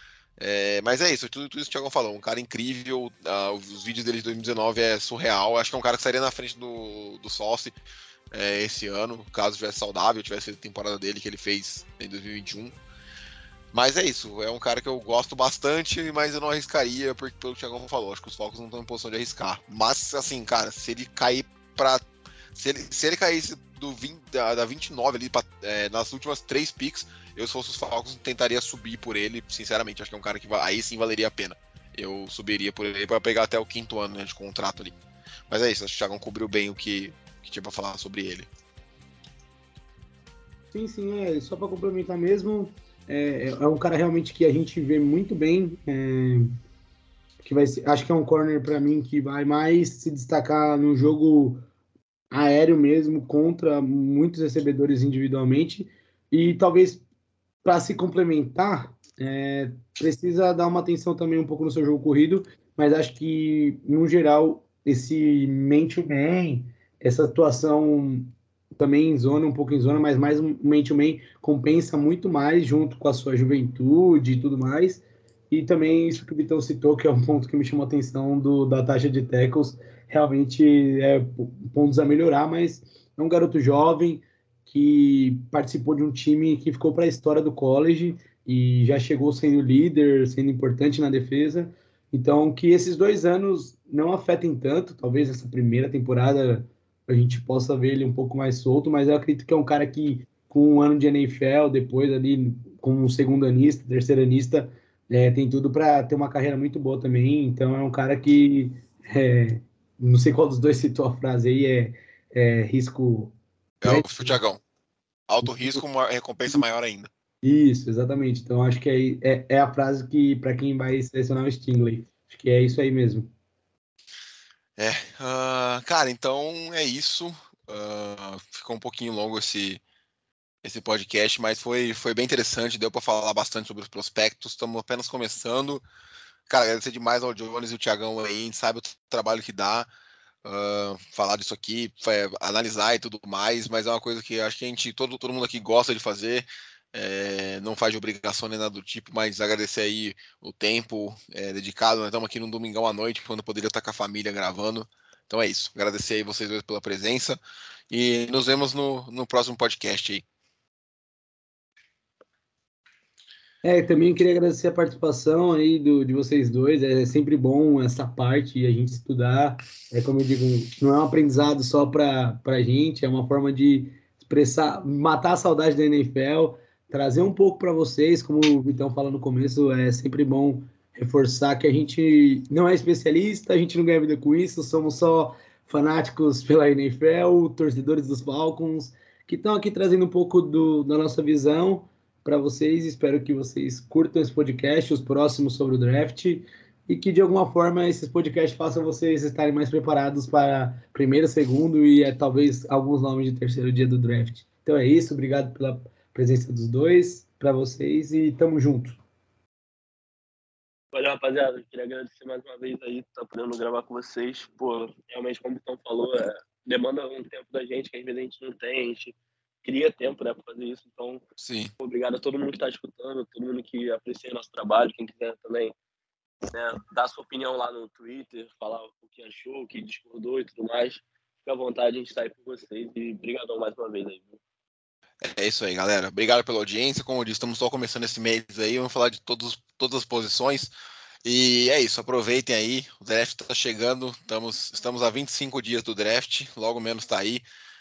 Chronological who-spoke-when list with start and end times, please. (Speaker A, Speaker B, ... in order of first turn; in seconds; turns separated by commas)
Speaker A: 0.4-7.7, Speaker A: 8.3-12.8, Speaker A: 13.7-34.9, Speaker A: 35.5-38.5, Speaker B: 40.7-46.5, Speaker B: 47.4-51.6, Speaker B: 52.3-57.0, Speaker B: 57.6-114.3, Speaker A: 113.8-114.6, Speaker A: 115.3-117.1, Speaker B: 115.4-115.8, Speaker B: 117.4-123.3, Speaker A: 124.8-129.8, Speaker A: 130.6-135.8, Speaker A: 136.5-139.9, Speaker A: 140.4-157.4, Speaker A: 157.9-160.2, Speaker B: 163.6-209.0, Speaker C: 210.9-221.2, Speaker A: 221.4-221.7, Speaker C: 221.8-225.7, Speaker C: 226.5-234.4, Speaker A: 235.2-240.7, Speaker A: 241.2-247.4